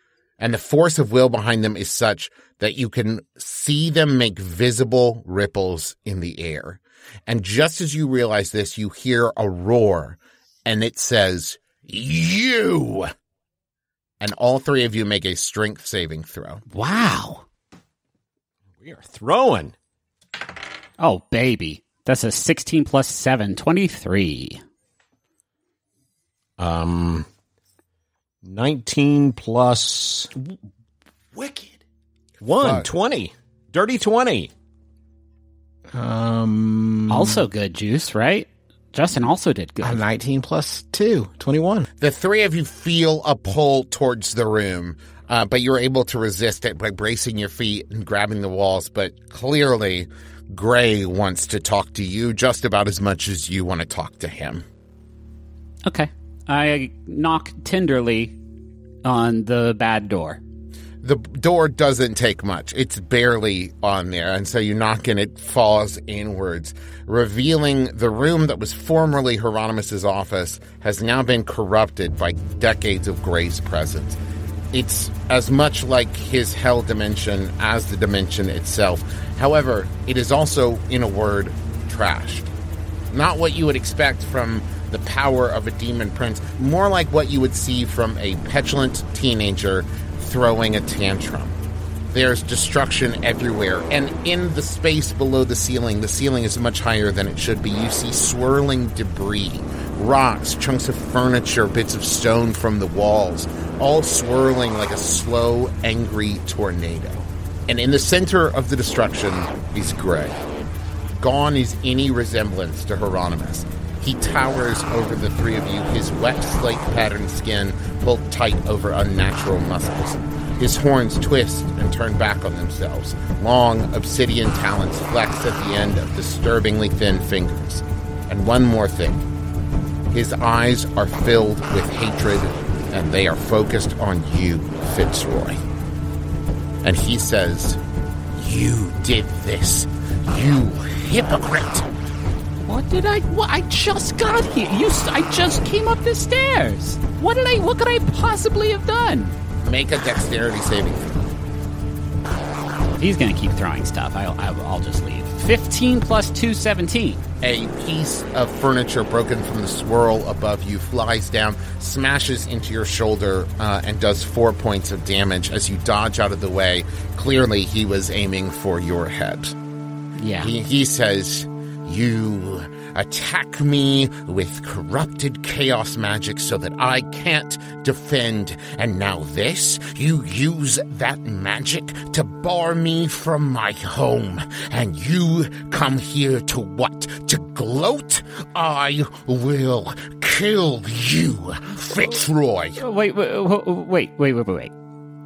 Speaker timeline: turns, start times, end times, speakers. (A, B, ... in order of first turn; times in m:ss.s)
0:00.4-0:13.1 A
0:14.2-0:16.6 A
0:16.7-0:17.4 B
0:18.8-0:19.8 C
0:21.0-0:24.6 B
0:26.6-0:27.3 C
0:28.4-0:30.3 C
0:31.4-0:31.8 C
0:32.4-0:34.5 C
0:32.6-0:32.9 A
0:35.9-0:37.5 D
0:37.1-0:40.0 B
0:39.8-0:41.9 D
0:42.0-0:54.6 A
0:55.8-0:58.4 B
0:59.0-1:00.4 B
1:01.0-1:14.2 A
1:14.7-1:22.5 A
1:23.1-1:31.6 A
1:32.1-1:50.4 A
1:51.2-2:09.3 A
2:10.1-2:15.6 A
2:16.8-2:17.8 A
2:18.4-2:21.9 A
2:22.6-2:29.4 B
2:29.6-2:31.3 A
2:33.0-2:37.2 B
2:37.4-2:49.6 A
2:50.2-2:50.5 B
2:50.4-3:12.8 A
3:12.8-3:14.7 B